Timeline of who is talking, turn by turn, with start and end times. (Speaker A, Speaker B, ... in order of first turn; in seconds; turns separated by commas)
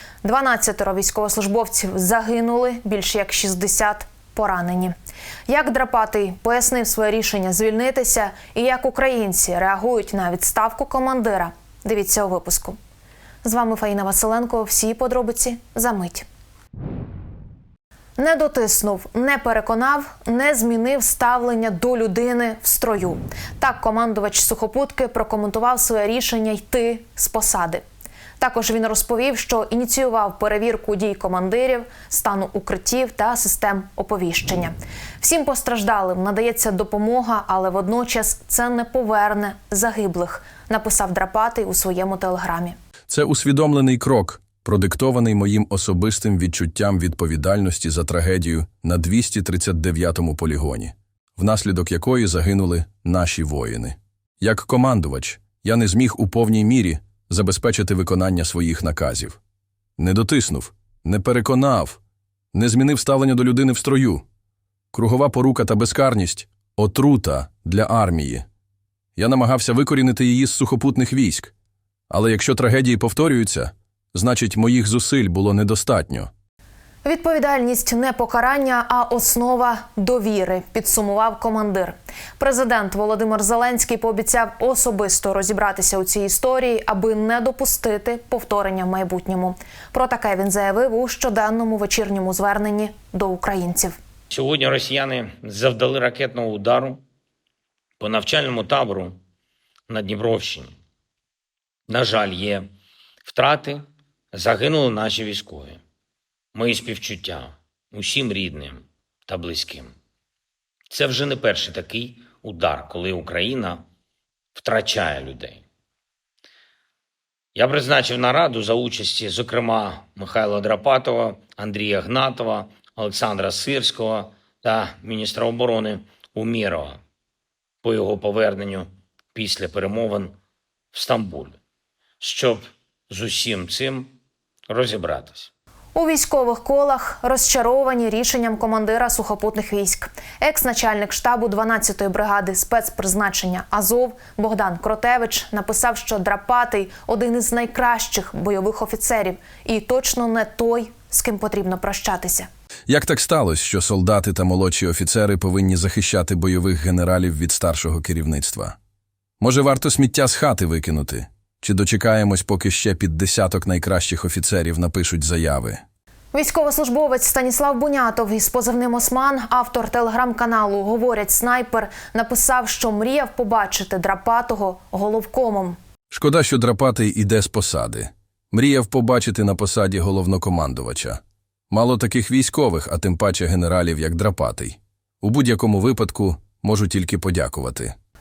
Speaker A: 0.2-5.0, Speaker A: 5.5-12.8, Speaker A: 13.4-16.2, Speaker A: 18.2-27.8, Speaker A: 28.4-42.7, Speaker B: 43.1-59.4, Speaker B: 60.0-62.0, Speaker B: 62.5-64.2, Speaker B: 64.9-68.4, Speaker B: 69.2-71.5, Speaker B: 72.1-76.3, Speaker A: 77.0-94.0, Speaker C: 94.3-97.0, Speaker C: 98.0-99.2, Speaker C: 99.9-100.7, Speaker C: 101.9-102.7, Speaker C: 103.3-105.8, Speaker C: 106.5-109.9, Speaker C: 110.9-113.8, Speaker C: 114.6-115.6, Speaker C: 117.5-127.0, Speaker C: 127.8-130.3, Speaker C: 130.9-131.6, Speaker C: 132.2-134.1, Speaker C: 134.7-135.5, Speaker A: 135.9-152.5, Speaker B: 152.9-158.8, Speaker B: 159.4-165.8, Speaker A: 166.3-175.8, Speaker B: 176.1-187.9